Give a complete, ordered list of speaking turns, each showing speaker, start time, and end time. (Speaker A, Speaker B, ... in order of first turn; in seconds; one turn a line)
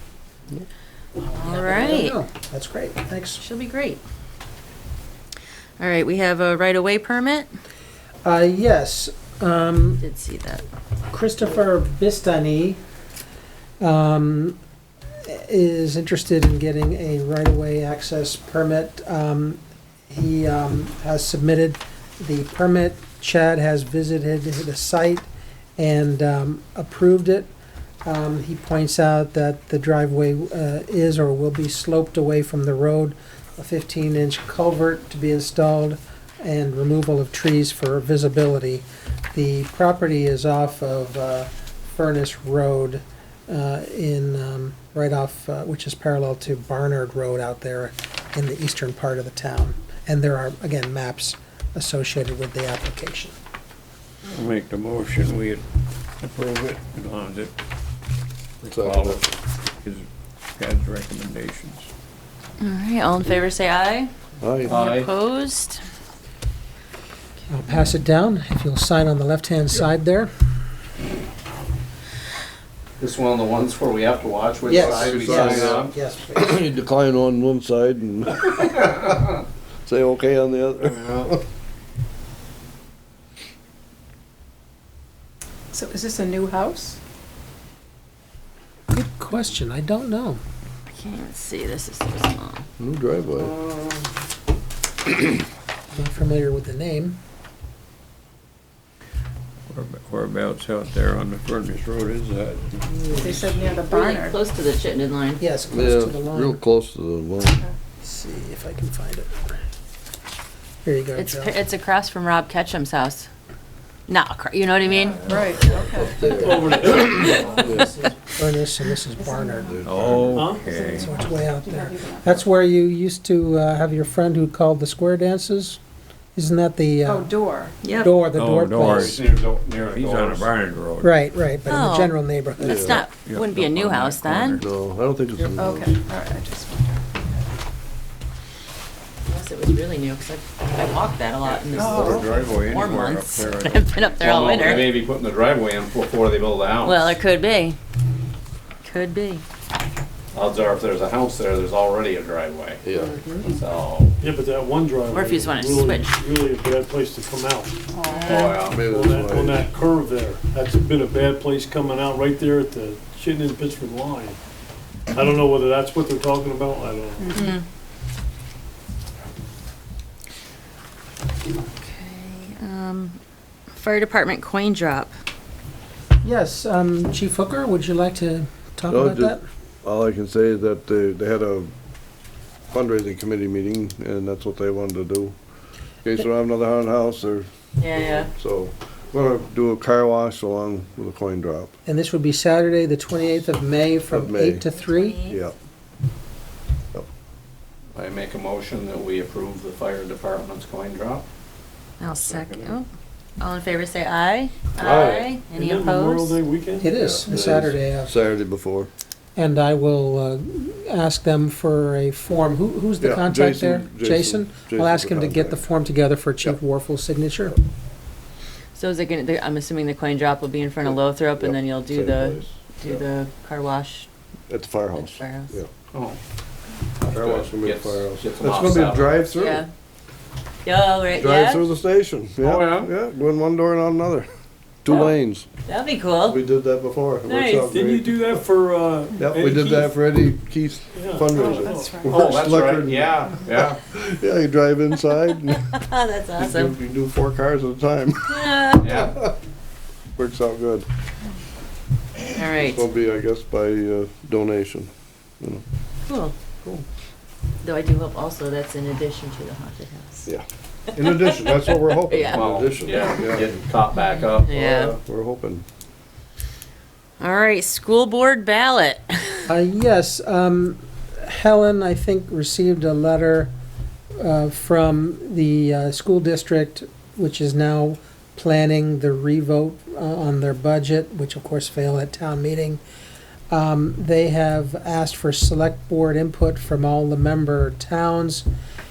Speaker A: 1.3-2.2
Speaker B: 1.4-3.4
Speaker A: 3.4-4.0
Speaker A: 5.8-7.5
Speaker B: 8.2-10.0
Speaker A: 10.0-10.6
Speaker B: 11.1-12.8
Speaker B: 13.8-14.6
Speaker B: 15.2-27.5
Speaker B: 28.0-53.3
Speaker C: 54.3-55.6
Speaker C: 56.2-57.5
Speaker C: 58.6-59.2
Speaker D: 58.6-59.2
Speaker C: 59.8-61.9
Speaker A: 62.6-64.1
Speaker D: 64.4-64.7
Speaker E: 64.7-65.1
Speaker A: 64.7-65.8
Speaker B: 67.5-70.3
Speaker E: 73.0-75.9
Speaker B: 74.6-76.7
Speaker D: 74.8-81.4
Speaker F: 85.7-87.0
Speaker B: 88.9-90.4
Speaker A: 90.9-92.6
Speaker D: 92.8-93.5
Speaker B: 95.9-97.2
Speaker C: 99.7-103.5
Speaker B: 103.1-103.4
Speaker F: 103.1-104.3
Speaker A: 103.9-105.4
Speaker B: 105.4-106.6
Speaker D: 105.7-107.6
Speaker B: 108.0-109.5
Speaker B: 110.8-111.6
Speaker A: 111.1-113.3
Speaker A: 114.1-115.7
Speaker F: 115.3-116.1
Speaker D: 115.8-117.0
Speaker G: 116.1-117.6
Speaker A: 116.9-117.6
Speaker D: 117.5-118.0
Speaker B: 118.2-119.8
Speaker F: 119.2-119.7
Speaker D: 119.7-120.5
Speaker C: 119.8-121.1
Speaker G: 120.3-120.7
Speaker F: 120.7-122.2
Speaker B: 120.9-125.8
Speaker B: 126.3-129.2
Speaker F: 127.0-127.8
Speaker A: 127.8-128.1
Speaker C: 128.3-129.2
Speaker E: 128.8-130.5
Speaker C: 129.9-131.2
Speaker B: 131.0-132.8
Speaker A: 131.7-134.6
Speaker D: 132.6-133.0
Speaker C: 132.8-134.7
Speaker D: 134.6-136.0
Speaker F: 135.6-137.1
Speaker A: 139.3-145.0
Speaker C: 141.7-144.9
Speaker E: 141.8-142.8
Speaker F: 141.8-142.2
Speaker E: 144.2-147.2
Speaker A: 146.8-147.8
Speaker A: 148.8-149.4
Speaker E: 150.3-152.8
Speaker D: 152.8-153.2
Speaker B: 153.0-153.4
Speaker E: 153.4-154.1
Speaker G: 154.2-164.4
Speaker A: 155.1-156.1
Speaker F: 157.9-158.2
Speaker A: 158.1-158.5
Speaker E: 158.2-158.8
Speaker D: 158.7-159.7
Speaker G: 165.1-167.4
Speaker A: 167.3-167.6
Speaker A: 171.8-173.2
Speaker A: 173.7-175.1
Speaker B: 176.2-179.4
Speaker D: 178.9-181.7
Speaker D: 182.7-185.3
Speaker D: 186.0-187.5
Speaker A: 187.8-188.3
Speaker D: 188.1-191.7
Speaker B: 191.8-195.2
Speaker D: 194.1-194.7
Speaker A: 194.7-195.4
Speaker D: 195.2-195.5
Speaker E: 197.9-201.2
Speaker A: 202.0-202.9
Speaker C: 202.1-202.7
Speaker A: 203.4-206.4
Speaker D: 204.8-205.3
Speaker G: 205.5-206.9
Speaker B: 206.8-208.1
Speaker D: 206.9-208.9
Speaker B: 209.3-217.6
Speaker D: 213.0-215.6
Speaker A: 218.7-224.1
Speaker D: 220.8-223.0
Speaker D: 224.5-225.7
Speaker A: 224.9-225.5
Speaker E: 225.9-226.2
Speaker E: 227.0-229.2
Speaker D: 227.1-229.6
Speaker A: 229.3-229.7
Speaker A: 230.6-231.6
Speaker D: 231.1-234.3
Speaker E: 232.4-232.9
Speaker D: 234.8-235.5
Speaker A: 234.9-235.1
Speaker A: 235.7-236.4
Speaker D: 236.3-238.1
Speaker A: 237.2-237.8
Speaker G: 237.6-239.9
Speaker D: 239.2-245.7
Speaker G: 240.9-242.1
Speaker F: 241.3-242.1
Speaker E: 242.1-243.8
Speaker A: 245.5-246.7
Speaker D: 246.4-249.3
Speaker A: 248.3-249.0
Speaker E: 248.8-249.2
Speaker D: 250.2-250.9
Speaker A: 252.3-252.8
Speaker D: 252.6-254.9
Speaker A: 256.1-256.3
Speaker A: 257.6-260.3
Speaker D: 260.3-263.5
Speaker A: 261.0-263.1
Speaker E: 262.3-264.7
Speaker A: 263.9-264.9
Speaker D: 264.5-265.6
Speaker A: 267.2-269.5
Speaker B: 269.5-273.5
Speaker B: 274.2-282.8
Speaker B: 283.5-288.5